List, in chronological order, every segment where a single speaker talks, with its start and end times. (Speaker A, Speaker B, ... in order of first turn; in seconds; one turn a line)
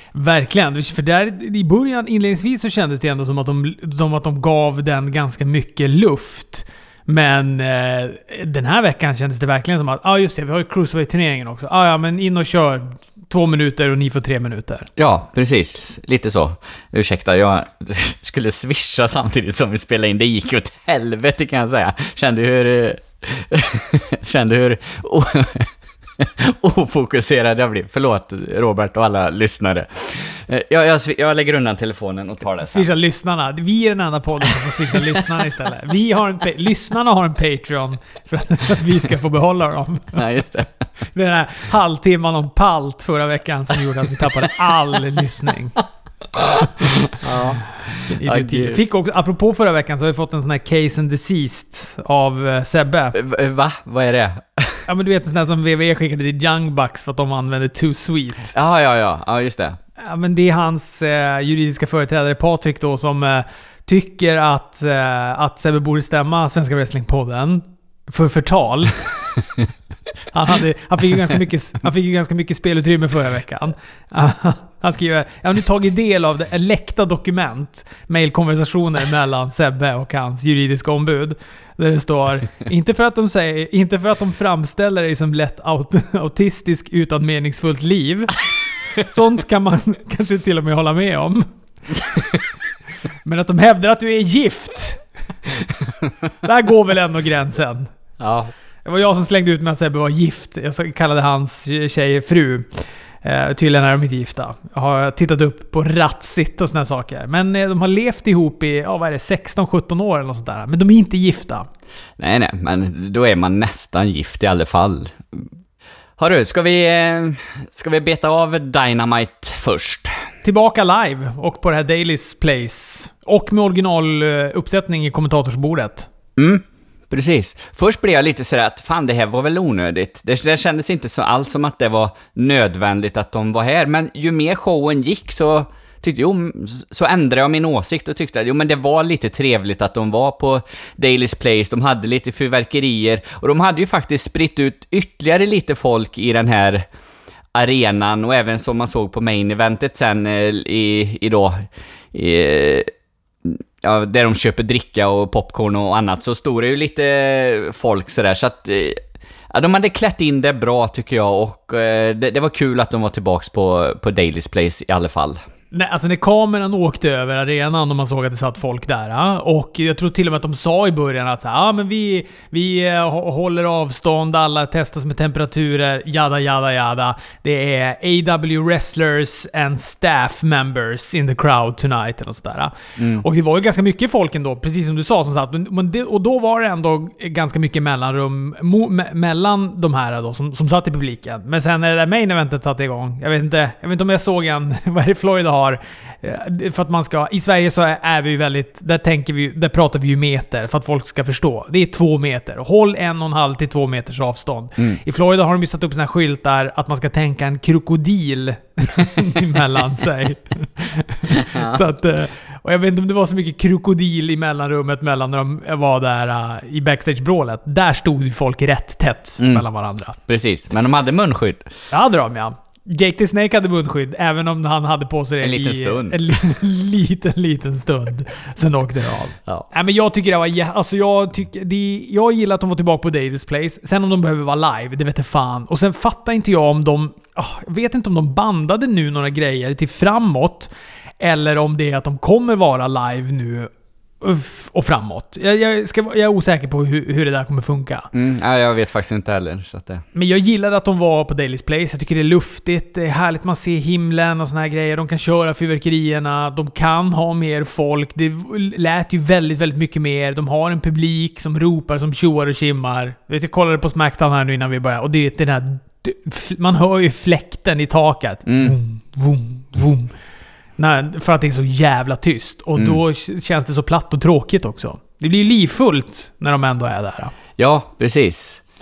Speaker A: 0.1-14.9
Speaker B: 15.0-32.8
Speaker A: 32.6-40.2
Speaker B: 40.1-40.7
Speaker A: 41.1-45.8
Speaker A: 46.6-47.2
Speaker B: 47.2-48.8
Speaker A: 48.1-53.1
Speaker B: 53.1-54.8
Speaker A: 54.9-58.5
Speaker B: 58.5-59.8
Speaker A: 60.0-69.0
Speaker A: 70.3-88.3
Speaker A: 89.0-91.4
Speaker A: 93.2-95.0
Speaker A: 96.4-97.9
Speaker B: 98.2-98.5
Speaker A: 98.8-102.7
Speaker A: 103.2-111.7
Speaker B: 112.2-115.4
Speaker B: 116.2-120.2
Speaker A: 120.4-126.1
Speaker B: 126.4-146.9
Speaker B: 147.5-152.9
Speaker B: 153.4-159.0
Speaker B: 159.5-165.4
Speaker A: 165.7-220.2
Speaker B: 183.0-183.2
Speaker B: 211.3-211.8
Speaker B: 219.4-219.6
Speaker B: 220.3-221.6
Speaker A: 221.9-243.7
Speaker B: 225.4-226.2
Speaker A: 244.2-248.1
Speaker B: 248.1-250.0
Speaker A: 250.1-270.1
Speaker B: 268.4-268.7
Speaker A: 270.8-277.3
Speaker B: 277.6-278.6